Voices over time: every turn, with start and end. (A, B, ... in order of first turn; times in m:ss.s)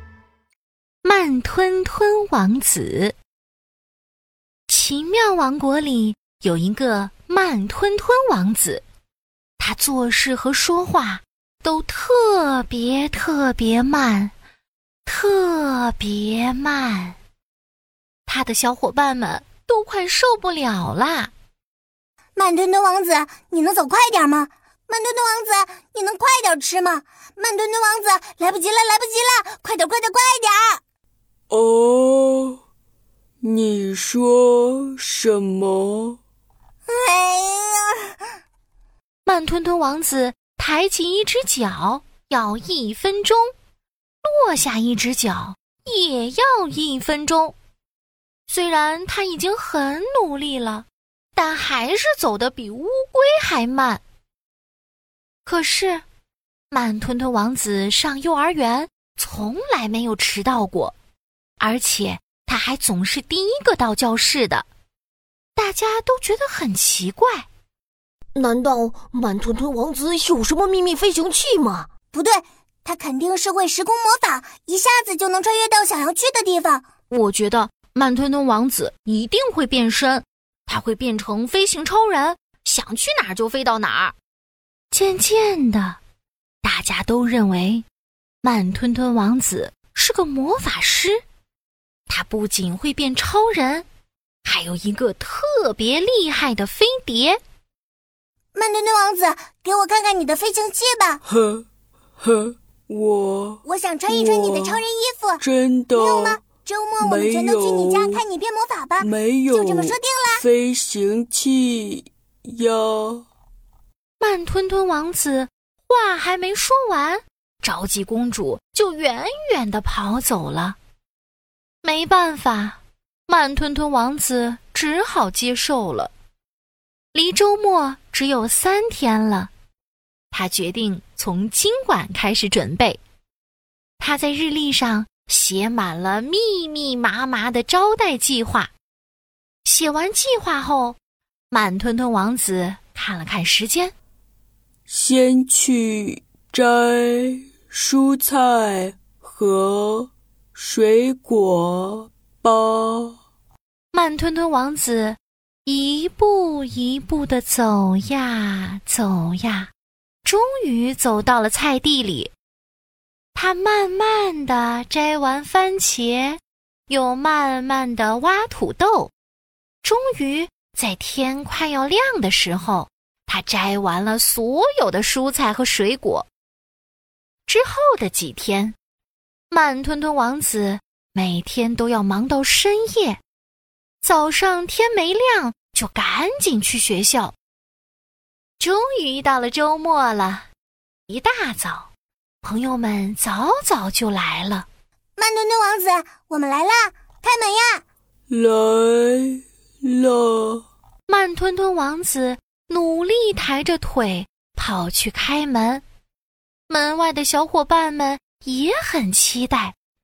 0:01.0-0:03.1 A
0:04.7-0:08.8 A
0:09.6-0:14.3 A
0:15.0-0:17.2 A
0:18.3-0:21.3 A
0:22.4-0:30.8 B
0:31.5-0:32.6 C
0:33.4-0:36.2 C
0:36.9-0:38.1 B
0:39.2-0:43.5 A
0:44.2-0:47.5 A
0:48.5-0:54.0 A
0:55.4-0:56.0 A
0:56.7-1:00.9 A
1:01.6-1:04.6 A
1:05.6-1:07.4 A
1:08.3-1:11.9 D
1:12.1-1:16.8 B
1:17.1-1:24.1 A
1:24.9-1:26.0 A
1:26.6-1:27.8 A
1:28.4-1:31.2 A
1:32.1-1:33.8 A
1:34.4-1:37.4 A
1:38.5-1:41.2 B
1:41.3-1:41.6 C
1:42.2-1:44.8 C
1:43.6-1:45.4 B
1:45.4-1:46.4 C
1:45.9-1:50.4 B
1:47.0-1:48.2 C
1:49.0-1:53.2 C
1:54.2-2:00.8 A
2:01.8-2:06.1 A
2:07.1-2:09.5 A
2:10.3-2:13.0 A
2:14.0-2:18.7 A
2:19.6-2:21.0 A
2:21.5-2:23.9 A
2:24.9-2:33.2 C
2:33.9-2:39.7 A
2:40.2-2:42.3 A
2:43.3-2:49.1 A
2:49.8-2:56.3 A
2:57.5-2:58.8 A
2:59.5-3:03.2 A
3:04.0-3:07.3 A
3:08.6-3:10.5 A
3:11.1-3:11.9 A
3:12.4-3:14.7 A
3:15.2-3:17.8 B
3:18.3-3:20.6 C
3:21.1-3:25.8 A
3:26.7-3:29.7 A